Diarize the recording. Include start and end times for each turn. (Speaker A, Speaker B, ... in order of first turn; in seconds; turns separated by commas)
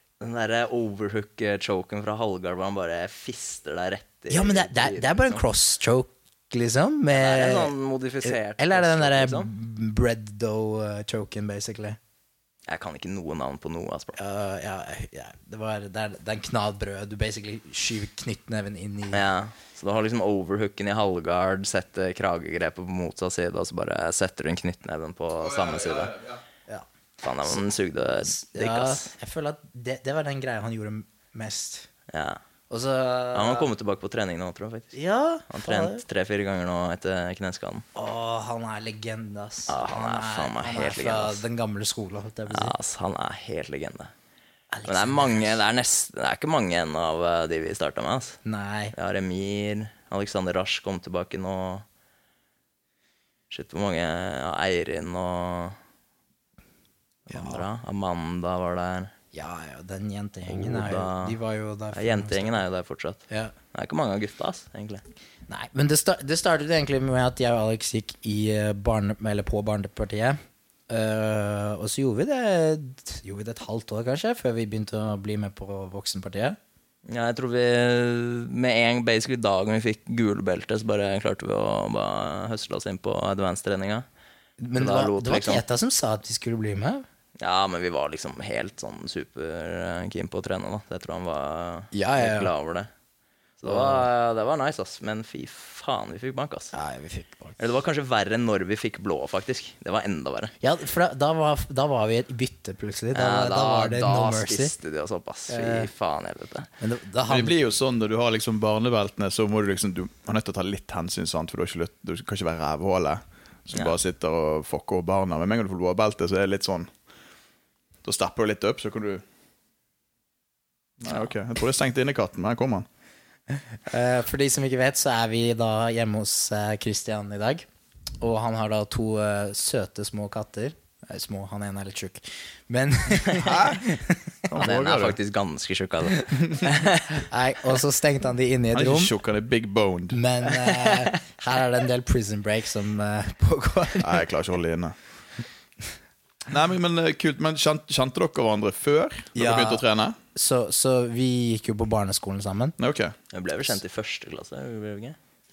Speaker A: 0.2-5.4, Speaker B: 4.3-12.0, Speaker A: 7.1-9.5, Speaker A: 12.7-14.2, Speaker B: 14.2-19.2, Speaker A: 19.1-26.2, Speaker C: 25.4-26.4, Speaker A: 27.2-29.1, Speaker B: 28.2-31.9, Speaker A: 32.1-32.4, Speaker B: 32.7-33.7, Speaker A: 33.3-37.9, Speaker B: 34.9-36.0, Speaker B: 37.9-42.7, Speaker A: 39.7-41.4, Speaker A: 42.5-44.1, Speaker B: 44.7-45.6, Speaker A: 44.9-48.4, Speaker B: 48.4-48.9, Speaker A: 48.9-51.9, Speaker A: 53.5-55.8, Speaker A: 57.3-59.1, Speaker B: 57.3-57.6, Speaker B: 59.3-62.6, Speaker A: 60.5-61.4, Speaker A: 61.9-65.0, Speaker B: 63.3-63.5, Speaker B: 65.5-70.4, Speaker B: 70.9-76.6, Speaker A: 77.1-84.1, Speaker B: 84.6-87.1, Speaker A: 84.8-85.6, Speaker A: 87.4-92.9, Speaker B: 91.9-92.5, Speaker A: 93.6-96.7, Speaker B: 93.6-94.1, Speaker B: 96.7-97.6, Speaker A: 97.6-100.5, Speaker B: 100.6-104.7, Speaker A: 103.1-106.7, Speaker B: 105.5-105.9, Speaker B: 106.8-107.6, Speaker C: 107.3-116.9, Speaker C: 118.0-119.2, Speaker C: 121.0-122.9, Speaker B: 123.5-127.7, Speaker B: 128.2-134.5, Speaker C: 133.4-133.9, Speaker C: 134.5-135.2, Speaker A: 134.6-137.3, Speaker B: 137.3-139.1, Speaker C: 138.7-140.2, Speaker B: 140.1-144.2, Speaker A: 140.7-141.2, Speaker C: 144.0-145.2, Speaker C: 146.5-150.2, Speaker B: 149.3-152.8, Speaker C: 152.8-153.2, Speaker A: 153.3-155.2